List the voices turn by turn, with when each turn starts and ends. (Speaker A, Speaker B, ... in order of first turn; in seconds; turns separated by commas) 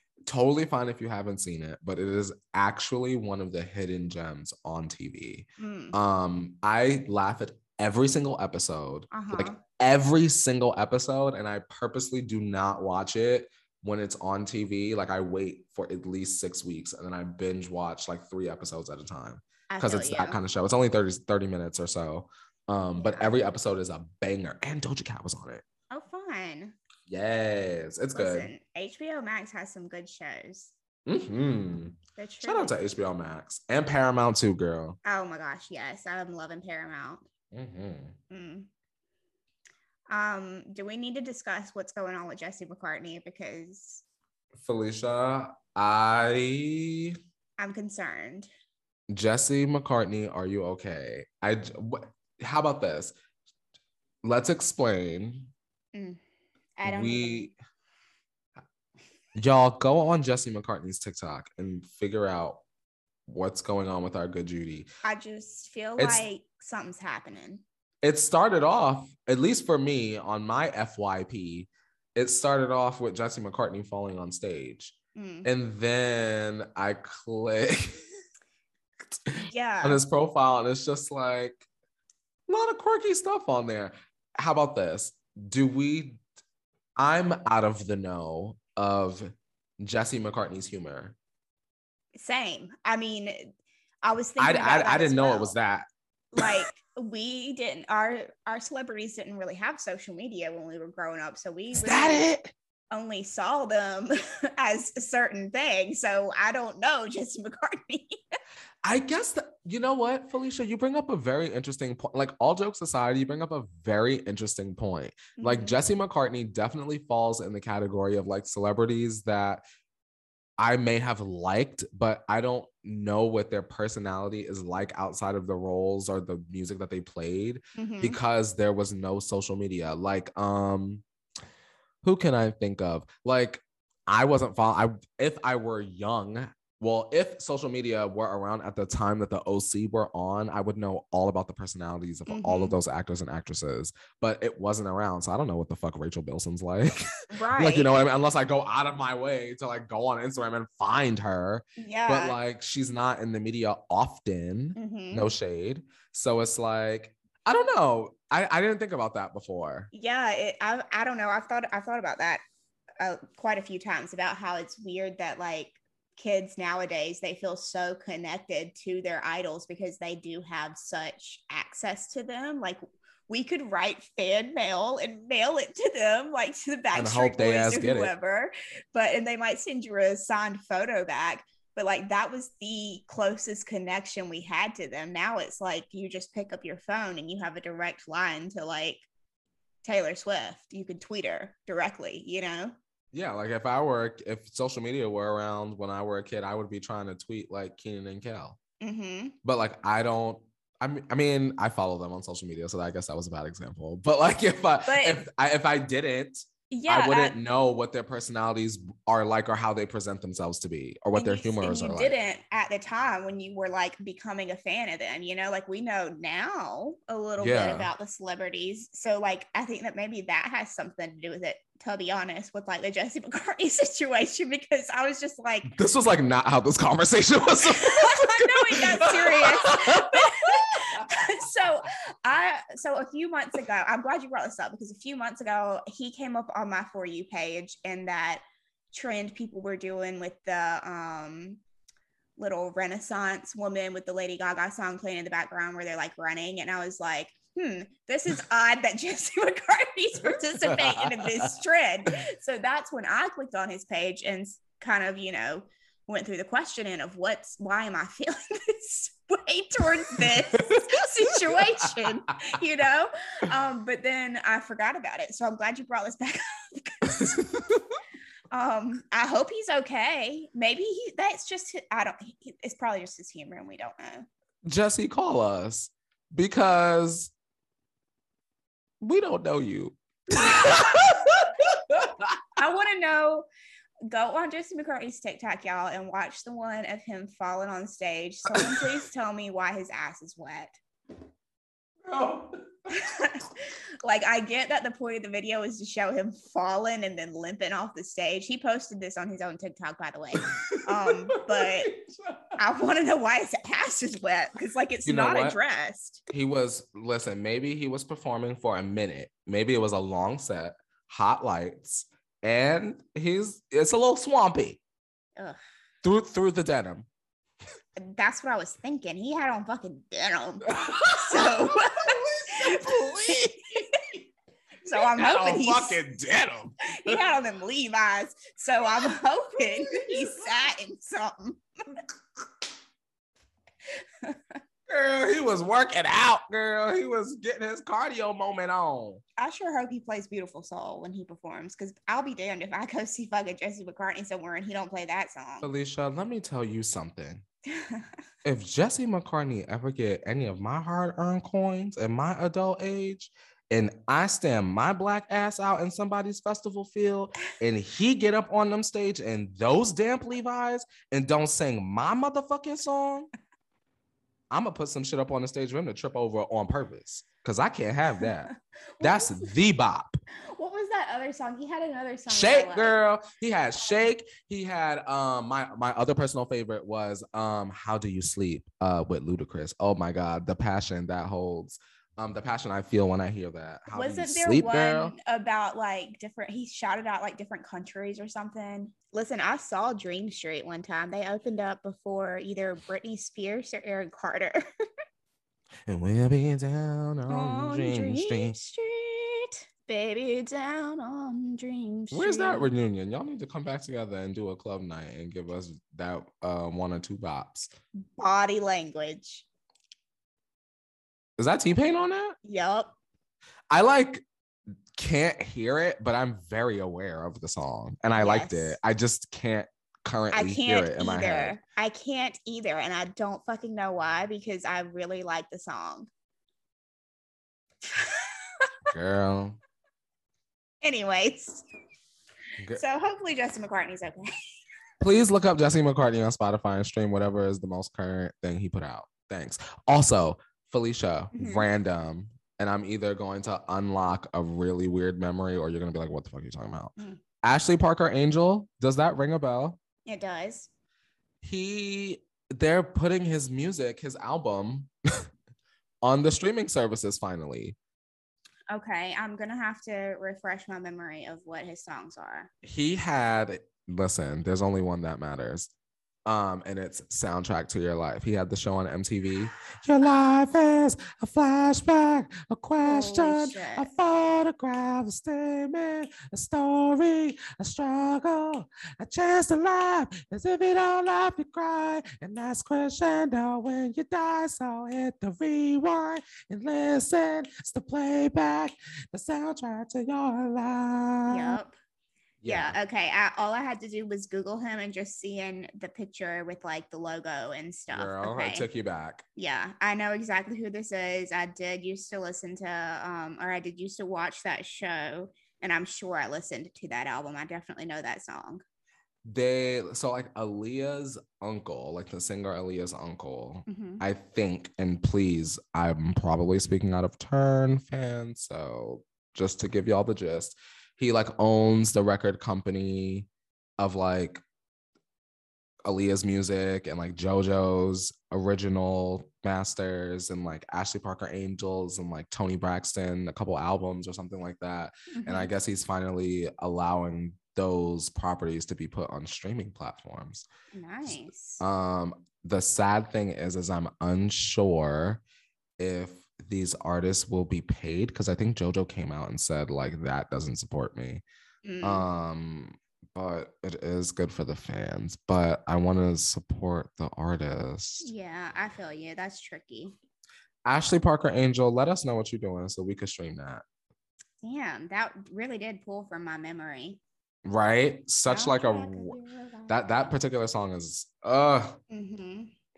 Speaker A: 0.3-25.6, Speaker B: 5.6-6.0, Speaker B: 9.1-9.6, Speaker B: 19.7-20.4, Speaker B: 23.0-23.3, Speaker B: 25.9-26.8, Speaker A: 27.1-28.5, Speaker B: 28.1-30.7, Speaker A: 31.1-35.0, Speaker B: 32.1-32.8, Speaker B: 35.0-37.2, Speaker A: 37.5-38.1, Speaker B: 38.3-38.7, Speaker B: 40.1-44.0, Speaker A: 44.5-47.1, Speaker B: 47.6-48.5, Speaker A: 49.1-53.1, Speaker A: 54.2-55.5, Speaker B: 55.9-56.2, Speaker B: 56.8-57.5, Speaker A: 56.8-57.5, Speaker A: 59.4-62.6, Speaker A: 63.3-64.9, Speaker B: 65.0-67.6, Speaker A: 66.0-66.2, Speaker A: 68.0-78.0, Speaker B: 75.2-75.5, Speaker A: 79.3-81.6, Speaker B: 79.4-80.0, Speaker A: 82.5-86.2, Speaker A: 87.0-91.2, Speaker B: 92.2-93.5, Speaker B: 94.0-95.5, Speaker A: 94.4-95.8, Speaker B: 96.3-102.3, Speaker A: 101.7-102.5, Speaker B: 102.9-108.2, Speaker A: 108.8-119.6, Speaker B: 115.4-115.8, Speaker A: 120.6-131.0, Speaker B: 127.7-128.2, Speaker A: 132.0-159.9, Speaker B: 142.3-142.8, Speaker B: 147.3-147.9, Speaker B: 151.8-152.4, Speaker B: 154.8-155.3, Speaker B: 159.9-162.4, Speaker B: 163.0-189.1, Speaker A: 176.9-178.1, Speaker B: 189.8-192.7, Speaker A: 193.1-198.6, Speaker B: 198.8-199.3, Speaker A: 199.4-212.1, Speaker B: 204.8-205.2, Speaker B: 206.7-207.4, Speaker B: 211.1-225.7, Speaker A: 217.4-217.9, Speaker A: 225.7-231.0, Speaker B: 227.7-241.6, Speaker B: 242.4-267.4, Speaker A: 250.3-251.3, Speaker A: 260.1-262.1, Speaker A: 267.1-267.9, Speaker B: 268.5-274.2, Speaker A: 274.6-277.3, Speaker A: 279.0-282.4, Speaker B: 282.6-283.4, Speaker B: 284.1-290.7, Speaker A: 288.5-288.9, Speaker A: 292.0-292.6, Speaker B: 292.9-301.9, Speaker A: 300.4-302.4, Speaker B: 302.6-306.3, Speaker A: 305.1-305.6, Speaker A: 306.3-314.8, Speaker A: 316.0-317.1, Speaker B: 318.0-324.2, Speaker A: 320.7-323.6, Speaker B: 324.8-326.0, Speaker A: 324.9-327.2, Speaker B: 326.8-332.0, Speaker A: 329.9-330.3, Speaker B: 334.2-334.6, Speaker A: 334.9-339.2, Speaker B: 339.4-345.7, Speaker A: 345.6-347.4, Speaker B: 347.7-348.1, Speaker A: 348.4-363.3, Speaker A: 364.5-370.2, Speaker B: 369.0-369.5, Speaker B: 370.5-372.9, Speaker A: 372.3-385.1, Speaker B: 383.9-394.6, Speaker A: 395.9-398.5, Speaker B: 397.3-402.7, Speaker A: 402.1-407.7, Speaker B: 408.1-409.4, Speaker A: 411.4-412.4, Speaker B: 412.4-412.9, Speaker A: 413.7-414.2, Speaker A: 414.9-421.6, Speaker B: 418.1-418.8, Speaker B: 420.3-426.1, Speaker B: 427.9-428.3, Speaker A: 428.9-429.6, Speaker B: 430.8-431.6, Speaker B: 432.7-434.3, Speaker A: 435.0-449.8, Speaker B: 441.3-441.7, Speaker B: 450.1-450.7, Speaker A: 451.4-454.9, Speaker A: 456.0-457.8, Speaker B: 458.7-462.5, Speaker A: 462.6-465.7, Speaker A: 466.2-491.6, Speaker B: 472.8-473.9, Speaker B: 491.3-491.8, Speaker A: 492.4-492.8, Speaker B: 492.4-498.7, Speaker A: 497.9-499.2, Speaker B: 499.4-508.6, Speaker A: 509.2-523.3, Speaker B: 513.7-514.0, Speaker A: 523.8-524.4, Speaker A: 525.8-540.5, Speaker B: 535.1-535.5, Speaker B: 540.7-541.6, Speaker A: 541.0-545.2, Speaker A: 545.8-551.2, Speaker B: 551.6-552.0, Speaker A: 551.8-558.1, Speaker B: 558.0-559.9, Speaker A: 560.6-563.6, Speaker B: 564.4-567.0, Speaker A: 567.4-571.8, Speaker B: 568.3-570.1, Speaker B: 571.9-572.5